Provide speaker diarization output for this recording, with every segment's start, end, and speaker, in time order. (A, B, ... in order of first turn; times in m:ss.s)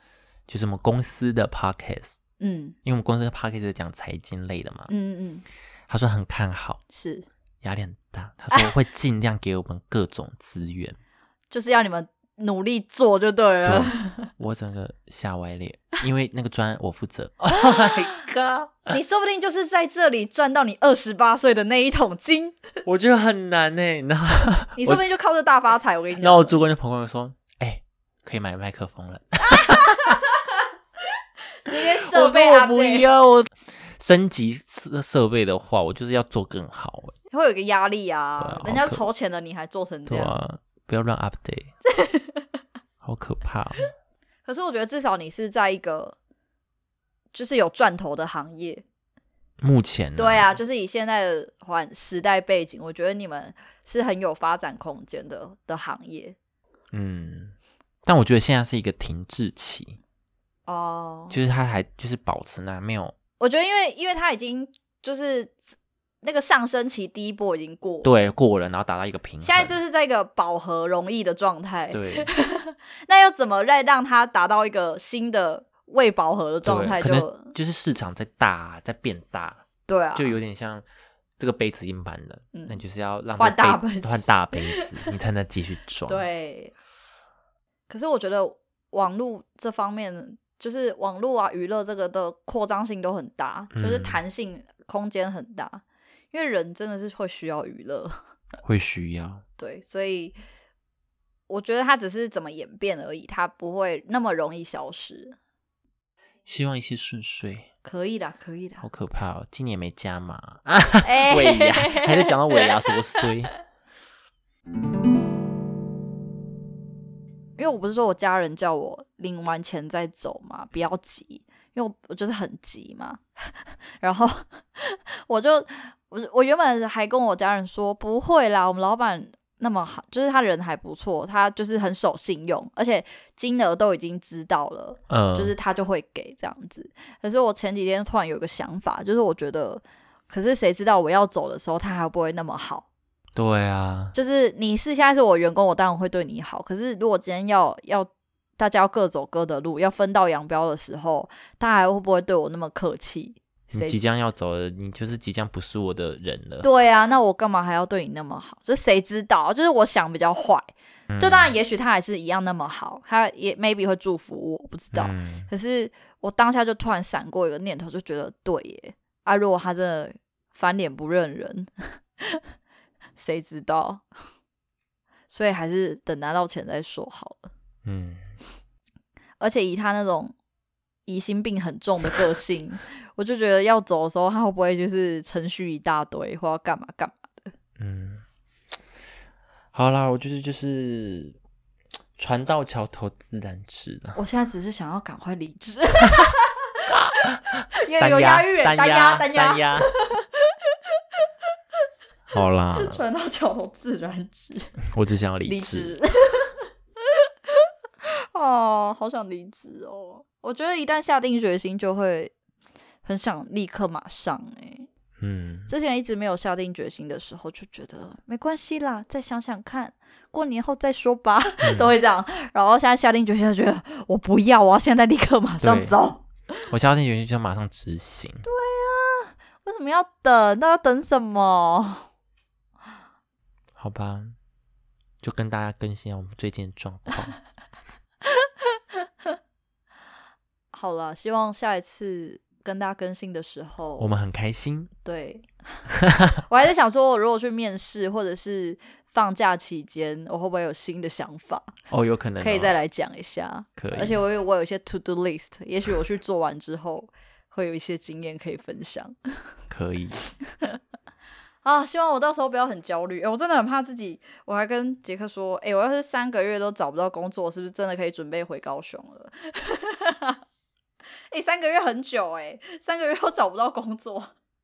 0:00.5-0:02.2 A
0:02.4-0:02.8 B
0:02.8-0:04.9 A
0:04.9-0:05.4 B
0:05.9-0:06.8 A
0:06.9-0:07.3 B
0:07.6-0:11.0 A
0:11.5-0:14.3 B
0:13.6-0:19.0 A
0:17.7-0:18.1 B
0:18.9-0:22.6 B
0:22.8-0:25.0 A
0:24.8-0:26.6 B
0:26.2-0:30.2 A
0:29.6-0:30.2 B
0:31.6-0:33.0 B
0:31.7-0:37.1 A
0:37.3-0:40.4 B
0:38.4-0:39.0 A
0:40.1-0:41.7 A
0:41.9-0:42.4 B
0:43.0-0:43.8 A
0:44.4-0:46.2 B
0:47.3-0:48.8 B
0:49.6-0:50.5 A
0:50.2-0:56.4 B
0:56.9-0:57.5 A
0:58.0-1:00.0 A
1:00.7-1:01.4 B
1:01.3-1:03.1 A
1:03.4-1:05.6 B
1:06.2-1:08.1 B
1:08.0-1:09.7 A
1:09.4-1:17.5 B
1:11.9-1:12.3 A
1:16.6-1:19.6 A
1:19.9-1:20.3 B
1:20.1-1:20.8 A
1:21.4-1:26.2 A
1:22.5-1:22.8 B
1:23.4-1:25.1 B
1:26.1-1:26.7 B
1:27.9-1:38.2 B
1:33.7-1:34.2 A
1:38.6-1:39.4 A
1:39.6-1:40.3 B
1:41.5-1:45.4 B
1:46.4-1:47.7 A
1:47.8-1:48.8 B
1:48.8-1:53.5 A
1:51.0-1:53.3 B
1:57.6-2:22.8 B
2:15.1-2:15.5 A
2:23.4-2:24.1 A
2:24.1-2:34.0 B
2:33.7-2:36.7 A
2:36.6-2:40.7 B
2:41.1-2:41.5 A
2:41.2-2:52.4 B
2:44.9-2:45.5 A
2:53.2-2:54.0 B
2:55.3-2:57.5 B
2:57.8-2:58.2 A
2:59.4-3:00.3 B
3:01.0-3:07.5 B
3:07.8-3:08.2 A
3:09.7-3:11.4 A
3:12.2-3:14.2 A
3:14.1-3:16.5 B
3:17.2-3:19.9 A
3:17.8-3:20.5 B
3:22.3-3:23.0 A
3:22.7-3:24.8 B
3:24.9-3:25.9 A
3:25.4-3:26.6 B
3:27.1-3:32.3 B
3:33.0-3:34.9 B
3:35.2-3:35.7 A
3:35.7-3:46.2 B
3:41.6-3:41.9 A
3:45.6-3:46.0 A
3:46.7-3:48.4 A
3:48.4-3:52.0 B
3:53.8-3:54.3 A
3:55.2-3:57.3 A
4:00.7-4:04.1 B
4:04.0-4:04.9 A
4:05.0-4:11.7 B
4:06.0-4:06.4 A
4:11.9-4:12.7 A
4:12.4-4:19.1 B
4:13.8-4:14.2 A
4:19.7-4:20.2 A
4:21.6-4:30.4 B
4:31.3-4:34.3 B